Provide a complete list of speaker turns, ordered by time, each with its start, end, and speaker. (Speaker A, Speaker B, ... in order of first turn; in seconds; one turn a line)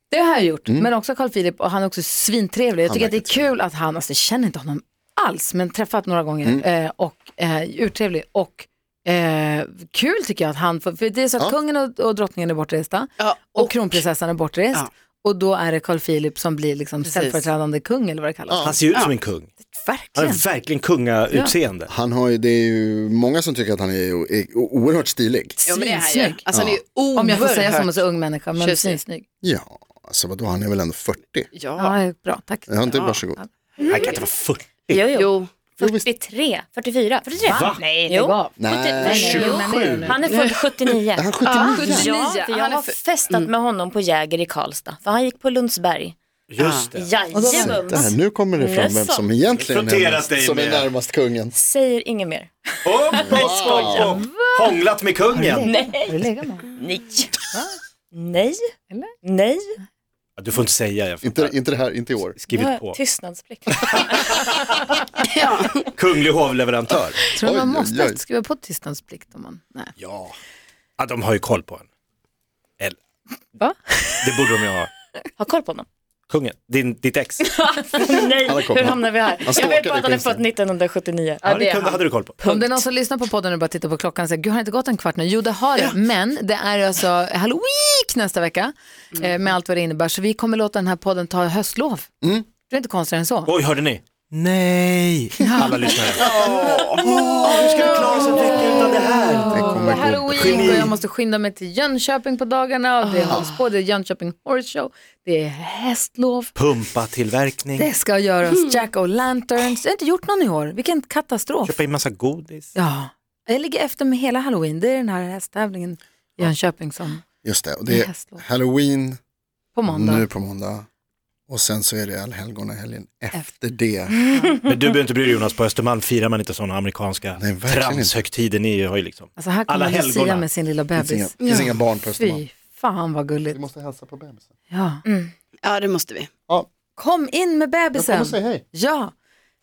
Speaker A: 0.1-18.7
Speaker B: 2.9-3.5
Speaker C: 13.2-14.0
Speaker C: 17.0-17.4
Speaker B: 18.5-18.8
Speaker D: 18.6-19.5
Speaker A: 19.7-20.4
Speaker D: 20.2-21.9
Speaker B: 21.9-25.6
Speaker A: 25.6-26.4
Speaker C: 25.7-28.0
Speaker B: 26.5-26.8
Speaker A: 27.1-29.2
Speaker C: 28.6-29.0
Speaker B: 29.4-31.5
Speaker C: 31.5-31.9
Speaker A: 31.8-33.5
Speaker B: 32.7-33.4
Speaker C: 32.9-33.2
Speaker E: 33.8-34.2
Speaker D: 33.9-35.0
Speaker E: 34.9-46.2
Speaker C: 35.1-35.5
Speaker B: 35.8-36.1
Speaker D: 37.4-37.8
Speaker A: 37.5-40.2
Speaker B: 38.6-39.7
Speaker D: 39.4-40.1
Speaker C: 40.3-43.5
Speaker B: 41.2-42.1
Speaker A: 41.7-42.4
Speaker D: 46.5-47.1
Speaker C: 46.6-46.9
Speaker E: 46.9-49.3
Speaker A: 47.3-48.1
Speaker B: 47.5-51.5
Speaker D: 49.6-50.9
Speaker E: 51.5-52.5
Speaker D: 52.8-55.7
Speaker E: 53.1-54.2
Speaker B: 53.2-54.2
Speaker A: 54.1-54.8
Speaker A: 55.3-56.7
Speaker E: 55.6-57.4
Speaker E: 58.1-59.8
Speaker D: 60.4-61.6
Speaker B: 61.2-62.4
Speaker D: 62.4-63.0
Speaker E: 62.5-64.8
Speaker D: 63.9-64.8
Speaker C: 65.2-65.9
Speaker D: 66.0-67.2
Speaker A: 67.3-69.9
Speaker B: 67.4-68.2
Speaker D: 70.0-70.3
Speaker D: 71.0-71.9
Speaker A: 73.6-74.2
Speaker D: 74.2-74.9
Speaker E: 75.4-75.9
Speaker D: 76.3-77.5
Speaker E: 77.5-82.8
Speaker B: 78.5-80.4
Speaker D: 81.4-82.4
Speaker A: 82.4-92.1
Speaker A: 92.7-93.5
Speaker D: 93.5-100.9
Speaker A: 95.4-95.9
Speaker C: 96.2-97.3
Speaker B: 96.2-96.7
Speaker A: 97.2-106.5
Speaker B: 97.4-98.0
Speaker B: 99.5-100.9
Speaker E: 103.0-103.5
Speaker D: 106.6-107.9
Speaker A: 107.8-111.8
Speaker D: 111.7-112.8
Speaker A: 112.8-117.2
Speaker B: 117.4-119.2
Speaker A: 117.9-118.4
Speaker A: 119.8-120.3
Speaker B: 119.9-120.9
Speaker B: 121.5-124.2
Speaker D: 124.7-130.5
Speaker B: 127.4-128.1
Speaker A: 129.4-131.6
Speaker B: 131.0-132.4
Speaker C: 131.4-131.7
Speaker A: 132.2-133.6
Speaker B: 133.5-134.4
Speaker A: 134.7-135.0
Speaker E: 135.1-135.3
Speaker C: 135.6-136.3
Speaker A: 137.0-139.1
Speaker B: 137.9-138.6